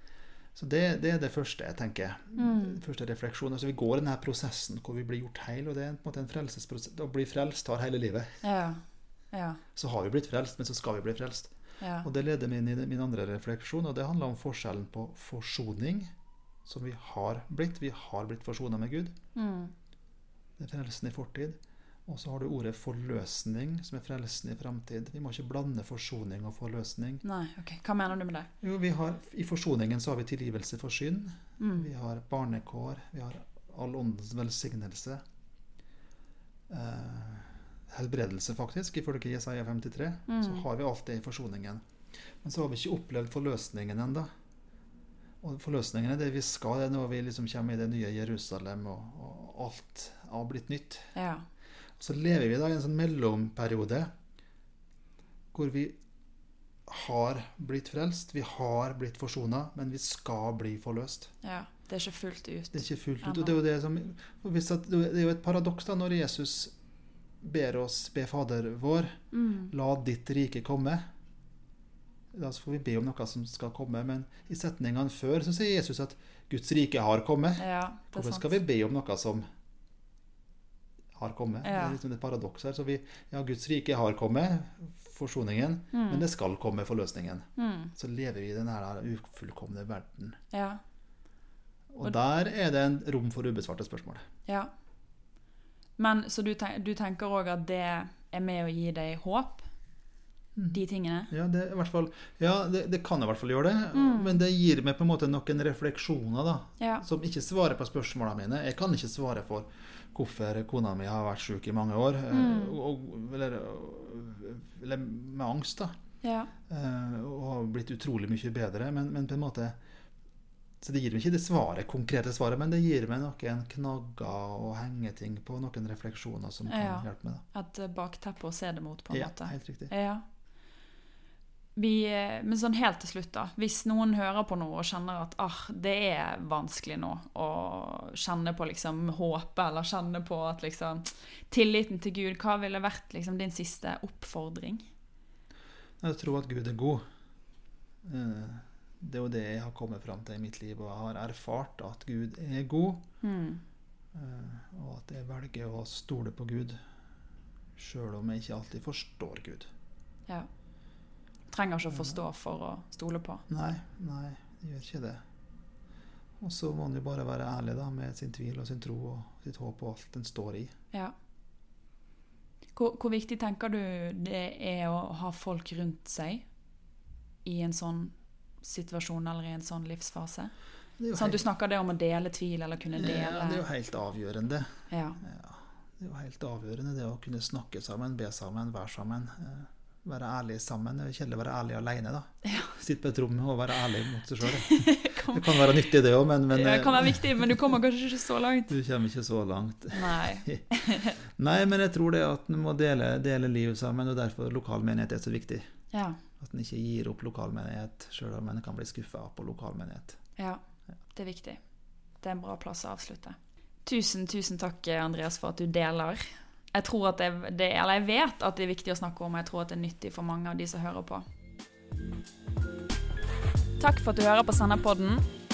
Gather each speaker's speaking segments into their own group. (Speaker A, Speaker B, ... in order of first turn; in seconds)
Speaker A: 0.5-8.4, 9.7-16.1, 16.6-19.1, 20.6-27.2, 28.6-35.2, 36.7-41.8, 42.4-44.3, 45.4-51.1, 52.0-54.1, 55.5-56.0, 56.9-61.3, 62.7-66.7, 67.4-71.0, 72.3-79.4, 81.1-90.4, 91.9-94.2, 101.3-116.0, 116.7-119.8, 120.8-127.4, 129.1-129.9, 146.0-147.0, 148.0-153.1, 154.1-156.8, 157.8-159.7, 163.5-165.2, 166.4-170.7, 181.0-181.4, 182.9-197.7, 198.7-200.6, 201.2-205.7, 206.4-210.2
Speaker B: 2.4-2.8, 8.4-8.8, 9.3-9.6, 11.8-12.1, 19.3-19.7, 27.2-28.5, 31.6-31.9, 40.3-40.6, 51.1-51.4, 61.4-63.5, 69.3-69.7, 77.6-78.5, 81.6-82.0, 85.9-86.2, 87.6-87.9, 90.5-90.8, 96.0-99.6, 100.7-101.3, 103.9-104.4, 106.8-107.0, 112.3-112.8, 116.2-116.5, 126.7-130.2, 131.8-144.9, 153.2-153.6, 161.5-163.4, 172.7-176.4, 177.4-180.5, 181.1-183.6, 184.9-185.2, 192.4-192.7, 194.4-195.7, 196.5-198.7, 199.9-201.2, 205.9-206.2, 211.1-211.6, 212.2-221.2, 223.8-225.2